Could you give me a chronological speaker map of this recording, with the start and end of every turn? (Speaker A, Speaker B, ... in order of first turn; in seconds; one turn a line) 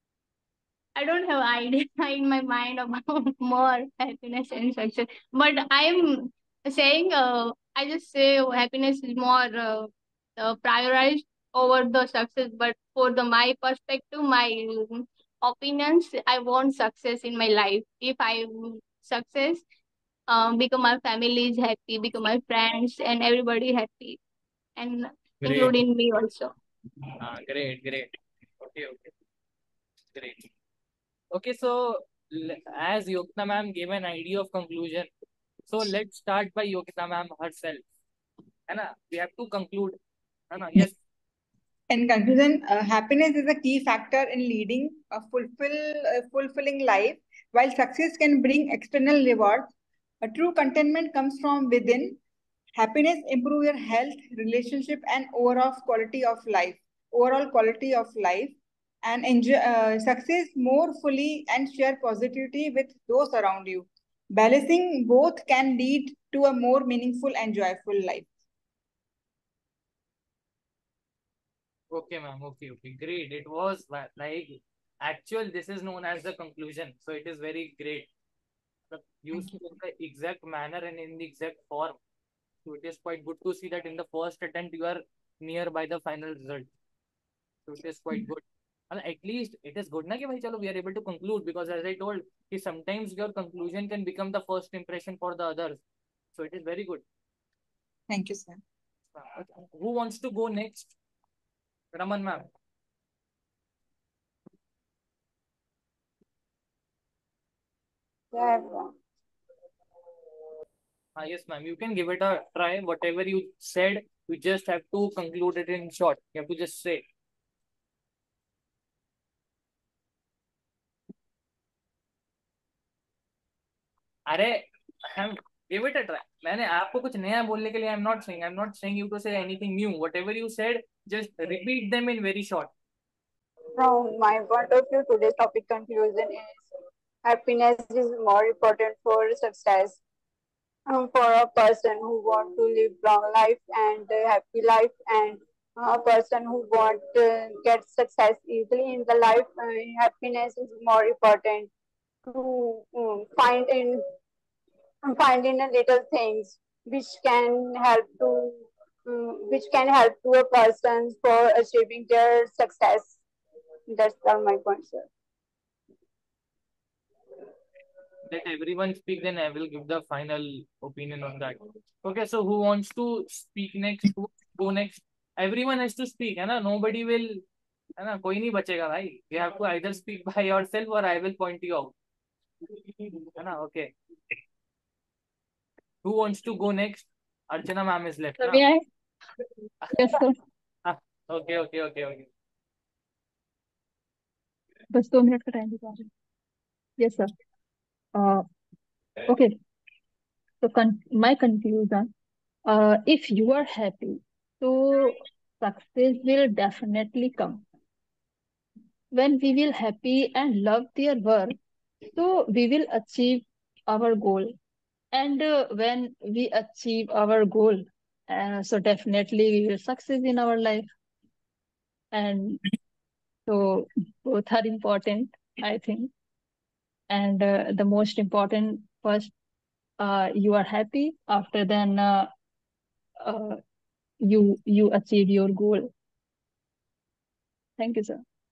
Speaker A: 1.0-19.6
Speaker A: 20.3-24.2
Speaker A: 24.8-26.5
Speaker B: 25.4-25.8
Speaker B: 27.2-29.1
Speaker B: 30.1-30.5
Speaker B: 31.3-35.1
Speaker B: 35.7-37.8
Speaker B: 38.7-40.0
Speaker B: 40.5-41.0
Speaker C: 41.9-52.2
Speaker C: 52.8-68.3
Speaker B: 71.9-78.1
Speaker B: 78.9-82.0
Speaker B: 82.7-86.7
Speaker B: 87.7-95.8
Speaker B: 96.3-97.0
Speaker C: 98.1-98.6
Speaker B: 99.2-101.0
Speaker B: 101.9-102.4
Speaker D: 108.3-109.0
Speaker B: 111.2-117.0
Speaker B: 124.3-132.7
Speaker D: 133.8-136.7
Speaker D: 137.2-140.0
Speaker D: 140.9-151.7
Speaker D: 152.2-154.0
Speaker D: 155.1-163.2
Speaker D: 163.9-165.1
Speaker B: 168.3-177.4
Speaker B: 178.0-181.9
Speaker B: 183.0-183.9
Speaker B: 186.0-188.6
Speaker E: 188.4-188.8
Speaker B: 189.8-190.1
Speaker E: 189.9-190.4
Speaker B: 190.8-192.3
Speaker E: 194.9-196.1
Speaker E: 197.0-197.3
Speaker E: 198.2-198.5
Speaker E: 199.3-199.6
Speaker E: 200.6-202.1
Speaker E: 202.7-207.6
Speaker E: 209.1-211.6
Speaker E: 212.2-214.5
Speaker E: 215.1-220.9
Speaker E: 222.1-222.6
Speaker E: 223.5-226.1
Speaker E: 227.1-229.3
Speaker E: 230.0-232.3
Speaker E: 233.2-233.6
Speaker E: 234.2-235.9
Speaker E: 237.8-238.2